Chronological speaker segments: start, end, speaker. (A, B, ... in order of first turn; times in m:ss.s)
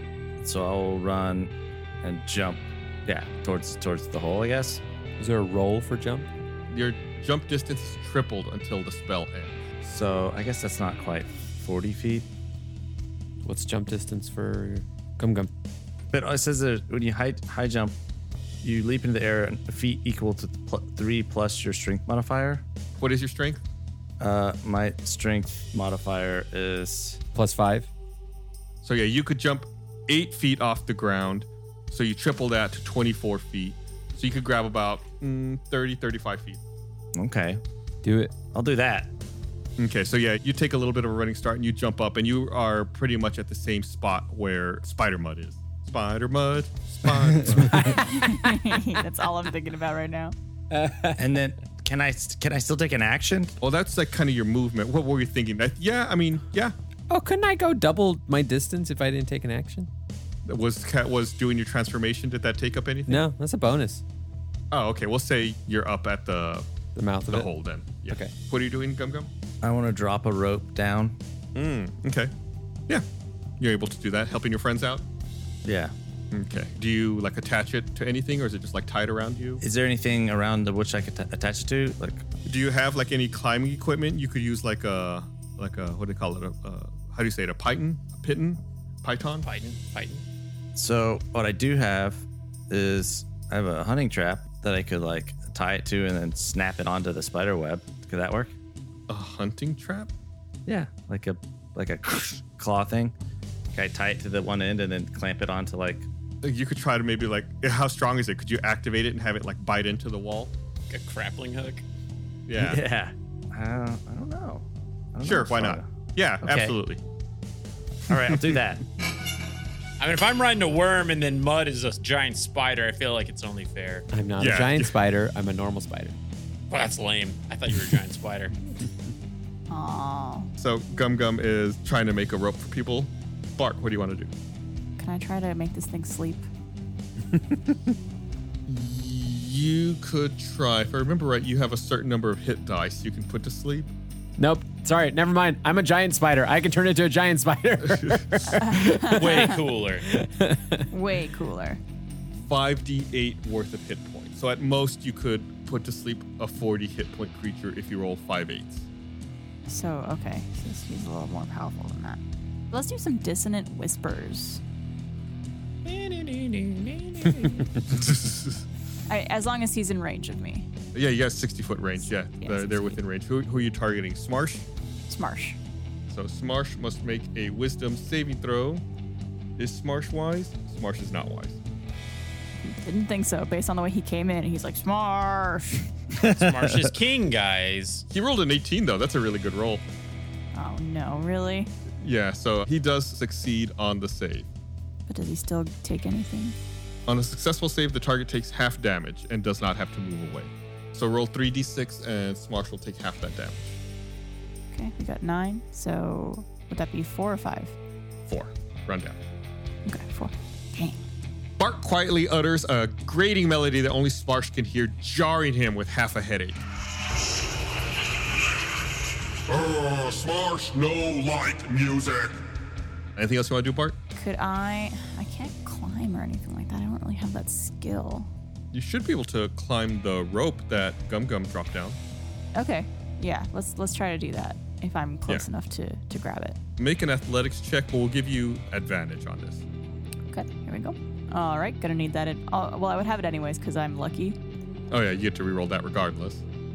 0:00.4-0:04.8 A
0:05.2-0:06.3 B
0:06.7-0:09.6 C
0:09.8-0:12.3 A
0:13.4-0:15.5 B
0:16.1-0:17.9 A
0:18.6-0:22.6 A
0:23.0-0:23.6 C
0:24.2-0:27.2 A
0:27.3-0:27.9 B
0:28.8-0:36.6 C
0:37.1-0:37.6 A
0:38.0-0:38.3 B
0:38.5-0:39.1 A
0:39.8-0:48.0 C
0:47.5-0:48.8 B
0:47.9-0:50.3 D
0:50.7-0:51.2 B
0:51.2-0:53.5 A
0:53.6-0:56.7 C
0:57.1-0:59.9 B
1:00.4-1:03.2 C
1:03.1-1:04.0 B
1:04.7-1:06.7 C
1:07.0-1:07.5 B
1:07.3-1:09.3 C
1:08.1-1:08.3 B
1:09.6-1:11.2 A
1:11.5-1:12.3 C
1:13.6-1:15.0 C
1:15.6-1:15.9 A
1:16.3-1:19.6 C
1:19.6-1:22.2 A
1:22.4-1:29.5 C
1:29.4-1:30.2 E
1:30.8-1:38.5 A
1:39.1-1:40.1 C
1:40.7-1:43.1 A
1:43.7-1:46.1 A
1:46.4-1:50.5 C
1:50.9-1:51.8 E
1:52.5-1:52.8 C
1:52.6-1:55.9 A
1:55.2-1:57.0 C
1:56.4-1:56.7 E
1:58.1-1:58.8 A
1:58.1-1:58.6 C
2:00.0-2:04.1 E
2:04.1-2:06.2 B
2:04.4-2:04.9 C
2:06.7-2:08.6 E
2:09.7-2:10.5 D
2:10.6-2:14.3 C
2:15.0-2:16.4 D
2:18.7-2:23.9 C
2:24.4-2:30.8 B
2:27.9-2:28.4 C
2:28.5-2:29.5 D
2:29.1-2:30.1 E
2:30.9-2:31.8 D
2:32.4-2:38.9 C
2:39.6-2:42.2 D
2:42.7-2:44.6 D
2:45.8-2:47.7 E
2:47.9-2:48.6 C
2:49.1-2:50.7 D
2:50.9-2:54.6 C
2:52.4-2:53.0 D
2:55.1-2:55.6 D
2:56.1-2:58.8 C
2:59.6-3:01.6 C
3:02.6-3:05.9 D
3:06.2-3:06.9 A
3:06.2-3:08.0 E
3:08.1-3:09.8 C
3:10.5-3:11.7 D
3:12.0-3:14.5 C
3:15.1-3:16.6 D
3:17.1-3:23.8 C
3:24.7-3:27.8 D
3:28.3-3:29.2 C
3:29.8-3:31.0 D
3:31.6-3:36.6 C
3:39.5-3:42.4 F
3:43.2-3:44.0 C
3:44.2-3:48.3 D
3:48.7-3:52.0 C
3:52.5-3:56.6 D
3:56.8-3:59.6 C
4:00.3-4:04.4 D
4:04.9-4:06.4 C